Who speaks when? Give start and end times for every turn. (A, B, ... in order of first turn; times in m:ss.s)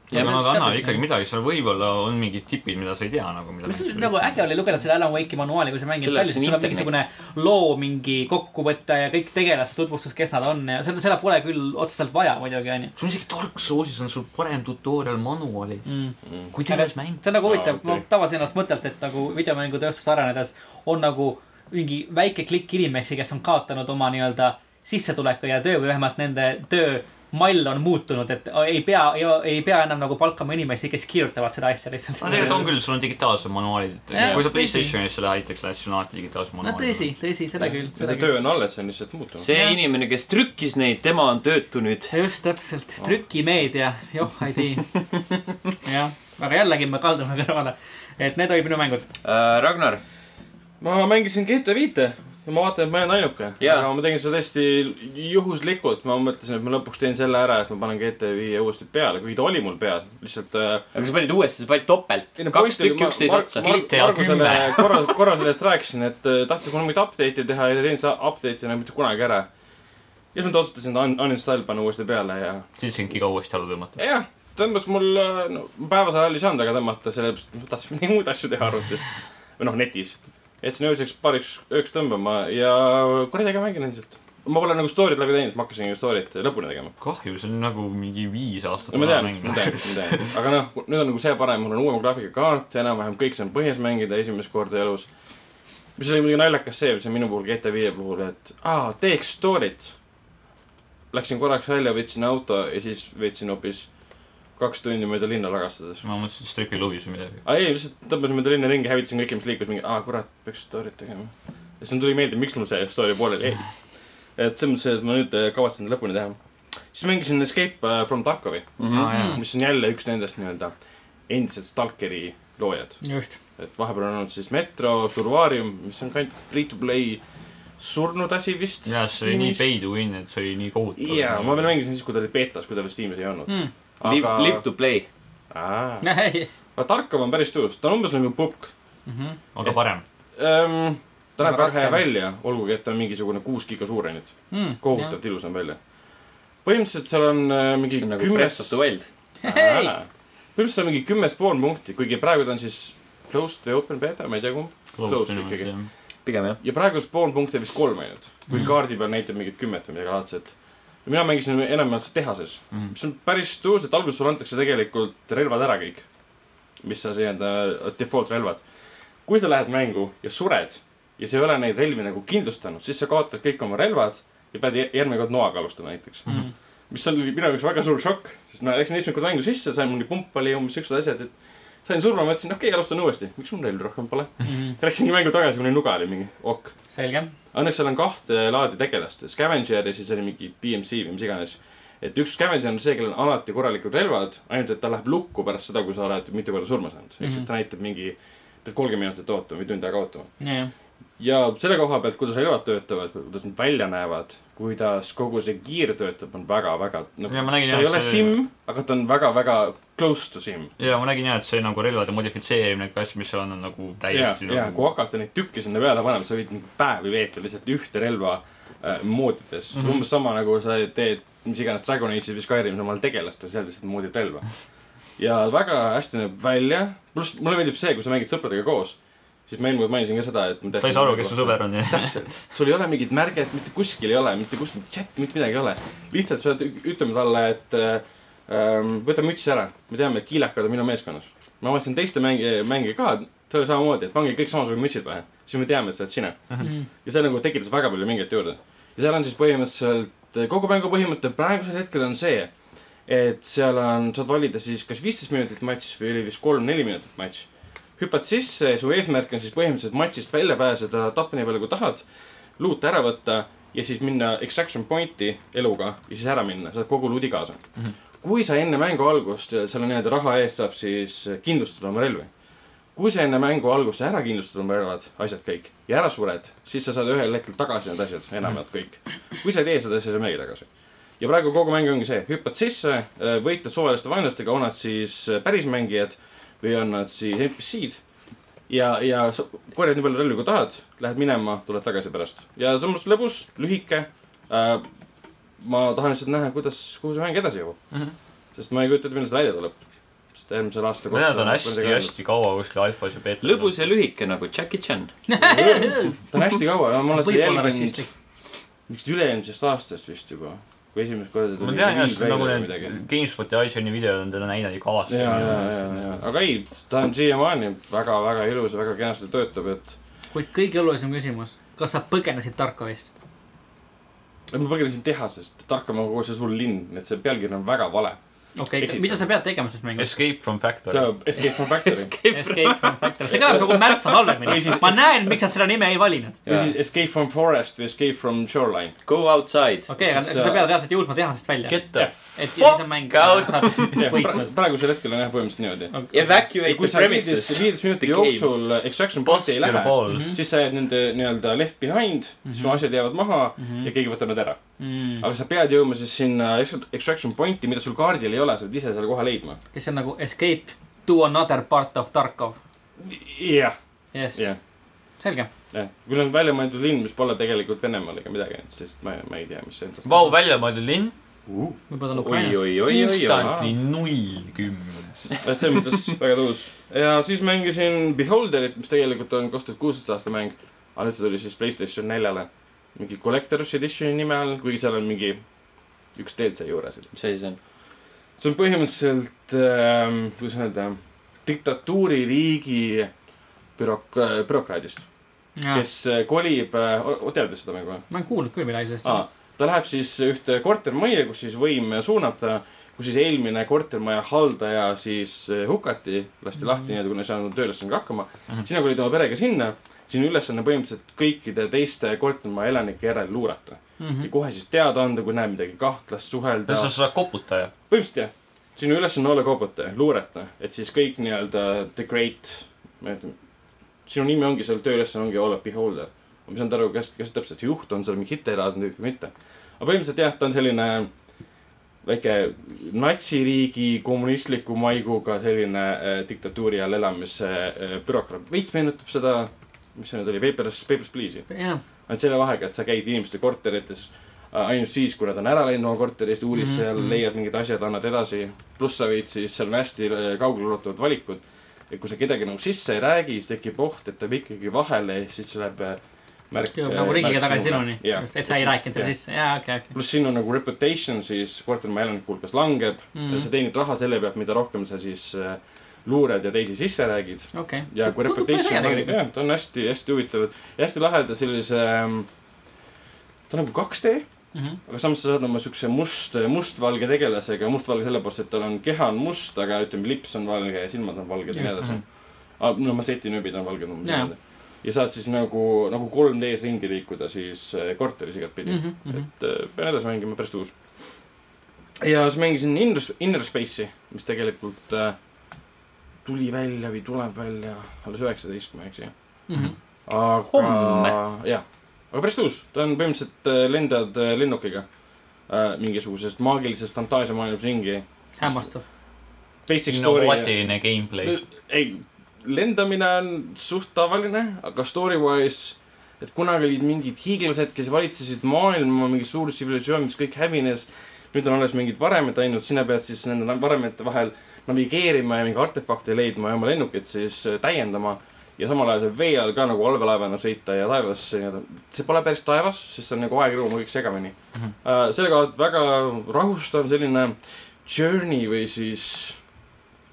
0:00.1-0:00.4 A
0:00.1-0:04.4 B
0:00.1-0:01.0 C
0:03.6-0:12.9 C
0:06.0-0:07.0 A
0:13.0-0:15.8 B
0:15.8-0:16.1 C
0:16.5-0:17.7 B
0:16.6-0:32.7 C
0:17.4-0:18.0 D
0:32.2-0:37.1 B
0:32.3-0:32.7 D
0:34.1-0:34.9 C
0:36.6-0:38.3 C
0:37.6-0:39.5 D
0:39.4-0:42.1 A
0:39.5-0:39.8 C
0:42.1-0:44.9 C
0:45.8-0:49.0 C
0:49.2-0:50.0 A
0:50.8-1:00.8 D
0:53.6-0:53.9 A
1:00.9-1:03.8 A
1:02.4-1:09.5 D
1:03.6-1:05.2 B
1:10.3-1:12.6 D
1:12.8-1:14.0 B
1:14.0-1:26.9 D
1:27.0-1:30.3 B
1:28.9-1:35.1 D
1:36.0-1:39.9 D
1:41.1-1:43.9 D
1:44.6-1:46.0 D
1:46.0-1:47.4 B
1:47.4-1:53.7 D
1:54.4-1:56.4 D
1:56.9-2:00.7 D
1:58.8-1:59.1 A
1:58.9-1:59.4 B
1:59.0-1:59.4 C
2:01.3-2:03.0 D
2:03.0-2:03.4 C
2:03.6-2:07.2 D
2:07.8-2:09.7 D
2:08.8-2:11.7 B
2:11.0-2:14.6 D
2:14.0-2:15.1 A
2:15.5-2:16.1 D
2:16.0-2:16.5 C
2:16.7-2:18.7 D
2:19.0-2:19.4 C
2:19.5-2:20.0 B
2:20.4-2:25.8 D
2:21.4-2:22.0 C
2:24.5-2:25.1 C
2:26.6-2:28.8 D
2:27.9-2:29.1 A
2:29.4-2:29.9 C
2:29.4-2:35.7 D
2:34.9-2:35.9 B
2:36.2-2:36.6 A
2:36.6-2:46.0 D
2:46.8-2:48.6 D
2:49.2-2:56.3 D
2:56.3-2:56.5 C
2:56.9-3:01.3 D
3:01.8-3:06.7 D
3:04.4-3:04.8 C
3:06.9-3:07.3 C
3:07.5-3:20.3 D
3:17.2-3:17.5 C
3:20.4-3:20.7 C
3:21.2-3:30.7 D
3:27.3-3:28.4 B
3:30.8-3:34.8 B
3:34.1-3:44.4 D
3:39.8-3:40.0 B
3:45.2-4:06.5 D
3:50.8-3:52.4 B
4:06.6-4:06.9 C
4:07.0-4:12.5 D
4:13.0-4:17.4 D
4:18.0-4:22.0 D
4:22.6-4:27.6 D
4:28.2-4:32.3 D
4:32.9-4:40.7 D
4:41.2-4:48.0 D
4:48.7-4:54.8 D
4:55.6-4:57.8 D
4:58.5-4:59.8 D
5:00.4-5:02.1 D
5:01.1-5:03.8 B
5:03.4-5:05.1 A
5:05.3-5:06.2 C
5:05.4-5:08.0 D
5:07.1-5:08.1 C
5:08.9-5:12.9 D
5:11.6-5:16.1 B
5:15.1-5:20.0 D
5:20.3-5:23.0 C
5:24.5-5:28.2 D
5:28.6-5:30.2 C
5:28.8-5:29.2 D
5:30.0-5:31.1 B
5:30.9-5:32.1 D
5:31.4-5:33.7 A
5:32.3-5:36.4 C
5:33.3-5:33.7 D
5:34.4-5:35.1 D
5:36.4-5:36.7 A
5:36.4-5:38.9 D
5:39.0-5:39.9 A
5:39.9-5:44.5 C
5:40.0-5:40.7 D
5:41.7-5:42.2 B
5:42.6-5:44.0 A
5:43.2-5:43.9 B
5:44.0-5:45.9 D
5:45.9-5:46.2 C
5:46.1-5:48.5 A
5:46.5-5:54.6 D
5:49.2-5:50.3 B
5:50.1-5:50.4 C
5:52.4-5:52.8 C
5:53.6-5:53.9 C
5:54.8-5:55.2 C
5:55.2-5:59.6 D
5:59.7-6:02.6 C
6:03.0-6:03.7 D
6:04.1-6:04.4 C
6:05.2-6:05.5 C
6:05.7-6:10.3 D
6:10.0-6:11.1 B
6:11.5-6:11.8 D
6:11.9-6:12.6 C
6:12.1-6:13.6 A
6:12.8-6:15.3 B
6:13.3-6:13.7 D
6:15.4-6:25.4 D
6:26.1-6:27.1 D
6:27.1-6:27.6 A
6:28.4-6:33.1 D
6:33.8-6:35.0 D
6:35.6-6:35.8 C
6:35.7-6:38.0 D
6:38.1-6:39.2 C
6:39.0-6:56.9 D
6:54.0-6:54.3 C
6:56.7-6:57.7 B
6:57.9-7:03.3 D
7:04.0-7:11.1 D
7:12.0-7:21.5 D
7:21.5-7:21.8 C
7:22.1-7:39.1 D
7:26.5-7:27.2 C
7:36.8-7:39.9 C
7:39.9-7:52.3 D
7:43.1-7:43.5 C
7:47.5-7:49.2 C
7:53.5-7:54.2 D
7:54.5-7:54.8 C
7:54.8-8:02.0 D
8:01.5-8:01.9 C
8:02.6-8:10.7 D
8:04.0-8:04.3 C
8:08.6-8:09.3 C
8:12.0-8:15.2 D
8:16.2-8:19.1 D
8:19.5-8:19.8 C
8:20.1-8:24.9 D
8:20.5-8:21.2 A
8:25.4-8:28.7 D
8:28.4-8:28.8 C
8:29.7-8:30.6 D
8:29.8-8:31.4 B
8:31.2-8:59.4 D